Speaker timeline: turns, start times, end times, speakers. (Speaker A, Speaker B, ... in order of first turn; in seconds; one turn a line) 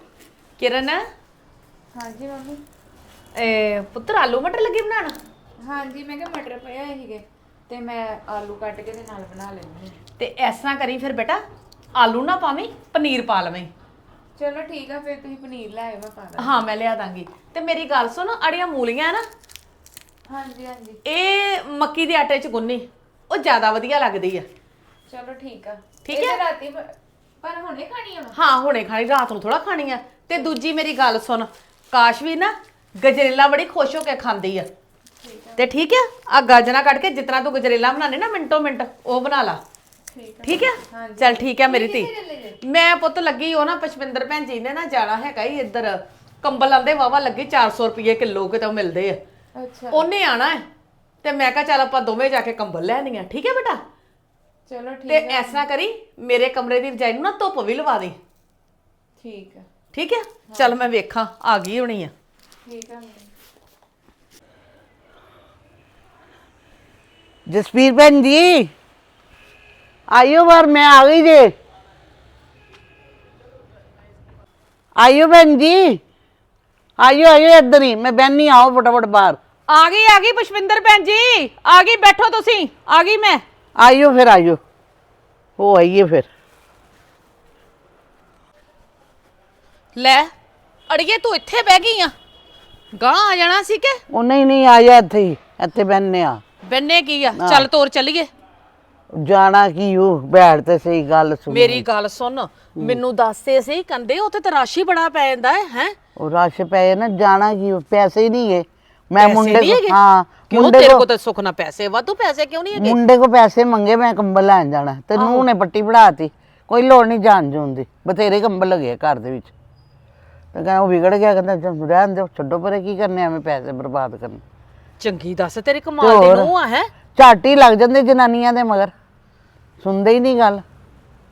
Speaker A: 0.6-1.0
Speaker B: 1.9-2.6
Speaker A: 3.4-5.2
Speaker B: 5.6-10.0
Speaker A: 10.2-11.4
Speaker A: 12.0-13.7
Speaker B: 14.3-16.6
Speaker A: 16.4-19.2
Speaker B: 20.3-21.0
Speaker A: 21.0-24.4
Speaker B: 25.1-28.4
Speaker A: 26.0-26.4
Speaker A: 28.3-34.7
Speaker B: 35.2-35.7
Speaker A: 35.6-39.6
Speaker B: 40.1-42.6
Speaker A: 40.4-42.1
Speaker A: 42.6-49.2
Speaker B: 49.5-50.1
Speaker A: 49.9-50.6
Speaker A: 51.2-53.8
Speaker B: 54.7-55.6
Speaker A: 55.1-58.2
Speaker B: 59.2-59.7
Speaker A: 59.9-62.1
Speaker B: 60.5-60.8
Speaker B: 62.6-63.3
Speaker C: 67.5-68.7
Speaker C: 70.1-71.5
Speaker C: 75.0-76.0
Speaker C: 77.0-79.4
Speaker A: 79.7-83.4
Speaker C: 83.8-84.6
Speaker C: 85.6-86.3
Speaker A: 89.9-90.3
Speaker A: 90.9-92.1
Speaker A: 92.9-94.0
Speaker C: 94.1-96.4
Speaker A: 96.6-98.3
Speaker C: 97.3-97.7
Speaker C: 99.1-101.8
Speaker A: 101.5-105.9
Speaker C: 106.2-111.0
Speaker A: 109.2-110.0
Speaker A: 110.5-113.0
Speaker C: 112.7-119.5
Speaker A: 115.2-115.5
Speaker C: 120.5-124.4
Speaker A: 125.0-126.9
Speaker C: 126.0-126.5
Speaker C: 127.2-128.9
Speaker C: 129.8-130.6